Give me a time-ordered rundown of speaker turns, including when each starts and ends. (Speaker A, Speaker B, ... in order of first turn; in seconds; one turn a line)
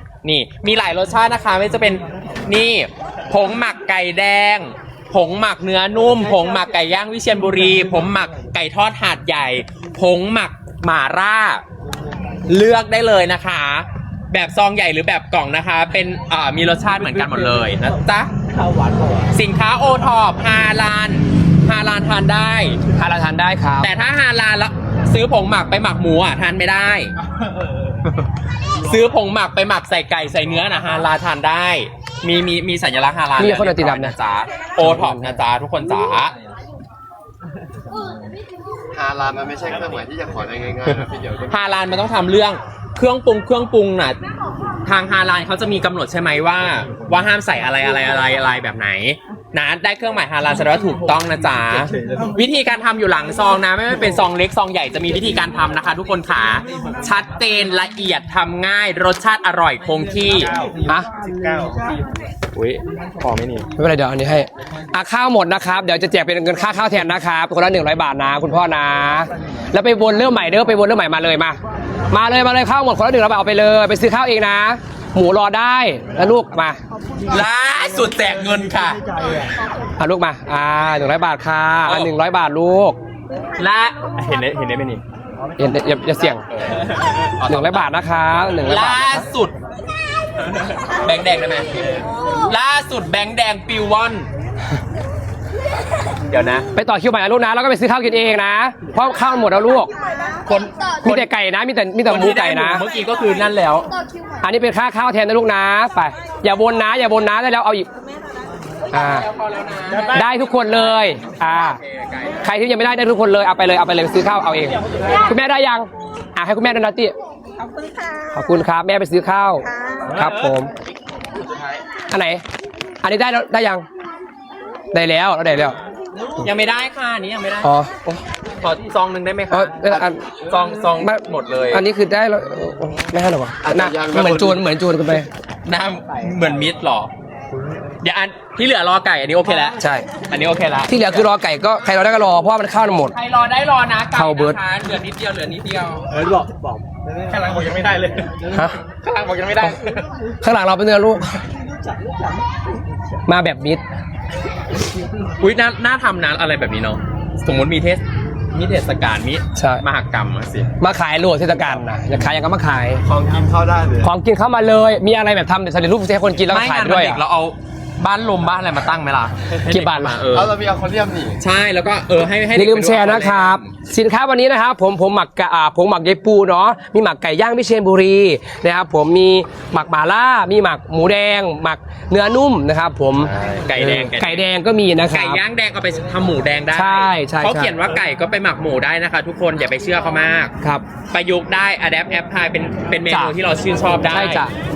Speaker A: 0.2-11.6
Speaker A: 12.5-18.3
Speaker B: 17.1-17.8
Speaker B: 18.5-19.3
Speaker A: 19.3-22.8
Speaker C: 22.9-23.9
Speaker A: 23.8-27.1
Speaker A: 28.8-36.3
Speaker C: 33.4-34.1
Speaker C: 34.8-35.3
Speaker D: 38.9-41.6
Speaker A: 41.5-44.2
Speaker A: 44.9-60.5
Speaker B: 60.4-62.0
Speaker A: 62.5-63.7
Speaker C: 63.8-71.6
Speaker C: 72.1-76.8
Speaker A: 77.3-79.5
Speaker C: 80.0-83.0
Speaker A: 81.8-82.1
Speaker A: 83.6-85.0
Speaker C: 85.6-86.4
Speaker A: 86.2-87.8
Speaker C: 87.5-89.2
Speaker A: 88.6-89.5
Speaker A: 90.8-94.3
Speaker A: 96.3-96.7
Speaker C: 96.8-99.9
Speaker E: 99.8-100.9
Speaker A: 100.5-101.3
Speaker C: 101.0-102.9
Speaker A: 102.0-103.9
Speaker C: 104.4-107.9
Speaker C: 108.9-109.2
Speaker A: 108.9-112.4
Speaker B: 109.9-110.4
Speaker C: 110.1-111.8
Speaker C: 112.4-117.1
Speaker B: 114.7-115.3
Speaker E: 117.5-118.5
Speaker C: 118.3-120.7
Speaker E: 119.7-120.1
Speaker B: 120.1-120.6
Speaker C: 122.1-122.4
Speaker C: 123.0-123.9
Speaker C: 124.9-125.8
Speaker A: 126.4-127.7
Speaker C: 127.6-128.2
Speaker A: 128.6-131.8
Speaker C: 129.5-130.2
Speaker C: 131.0-135.3
Speaker D: 133.6-134.6
Speaker A: 135.7-137.1
Speaker A: 138.0-141.3
Speaker C: 139.8-140.1
Speaker C: 140.9-143.1
Speaker A: 143.1-146.1
Speaker C: 144.1-144.6
Speaker B: 146.1-148.4
Speaker C: 148.5-148.8
Speaker B: 149.0-150.0
Speaker A: 149.1-149.8
Speaker C: 150.4-151.4
Speaker C: 153.3-153.8
Speaker A: 155.4-160.7
Speaker C: 159.6-159.8
Speaker C: 160.8-163.0
Speaker D: 163.0-164.1
Speaker C: 164.0-167.2
Speaker A: 166.5-170.5
Speaker C: 169.7-170.2
Speaker D: 170.3-171.4
Speaker A: 171.4-173.7
Speaker C: 172.5-185.4
Speaker A: 183.2-184.4
Speaker A: 185.0-190.5
Speaker C: 186.7-187.7
Speaker A: 191.1-194.5
Speaker C: 193.1-193.3
Speaker C: 194.1-194.5